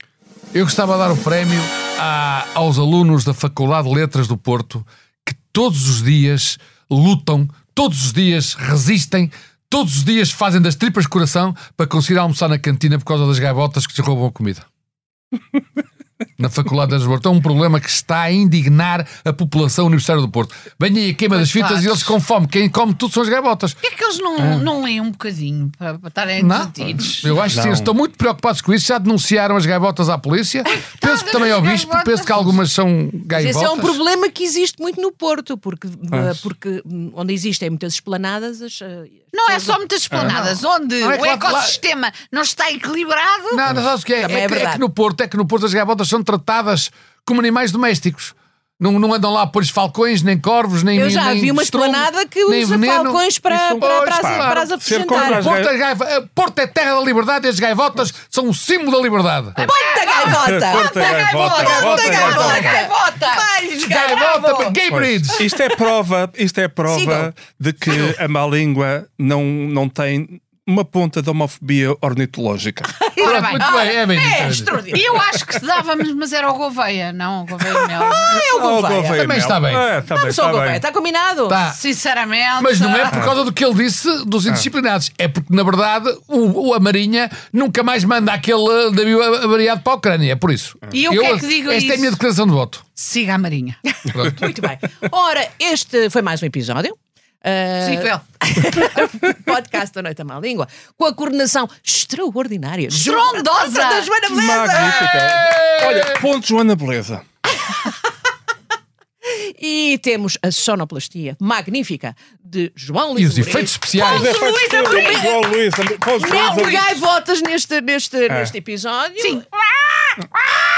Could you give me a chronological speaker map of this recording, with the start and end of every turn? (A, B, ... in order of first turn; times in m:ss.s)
0:00.5-0:14.7 A
0:16.4-0:23.8 A
0:21.3-0:22.1 B
0:23.8-0:27.4 B
0:24.4-0:24.6 C
0:26.4-0:34.0 A
0:27.5-0:27.9 C
0:30.7-0:32.6 B
0:33.3-0:39.8 D
0:36.1-0:36.4 C
0:39.3-0:43.7 B
0:40.1-0:40.4 C
0:40.3-0:41.8 A
0:43.5-0:59.7 A
0:44.2-0:44.8 D
0:51.0-0:55.5 D
0:53.5-0:55.7 C
0:59.6-1:02.7 C
0:59.6-1:04.8 D
0:59.8-1:03.5 B
1:02.2-1:02.8 A
1:03.8-1:05.5 A
1:04.9-1:13.0 C
1:06.9-1:07.3 D
1:13.0-1:15.2 D
1:13.2-1:13.7 B
1:13.2-1:14.7 A
1:14.9-1:18.4 B
1:18.1-1:20.8 C
1:18.2-1:19.3 D
1:19.2-1:19.9 A
1:20.1-1:21.6 D
1:21.5-1:21.8 A
1:21.7-1:23.2 B
1:22.6-1:32.8 A
1:30.9-1:32.2 B
1:33.0-1:33.8 B
1:34.0-1:45.3 D
1:34.1-1:34.4 A
1:37.8-1:38.2 B
1:42.9-1:44.1 B
1:44.3-1:47.2 C
1:45.0-1:46.2 A
1:49.2-1:55.6 D
1:53.2-1:54.3 A
1:54.0-1:55.3 B
1:54.0-1:57.0 C
1:56.2-2:00.1 D
1:56.2-1:56.8 B
1:58.3-1:58.5 C
1:59.2-1:59.5 B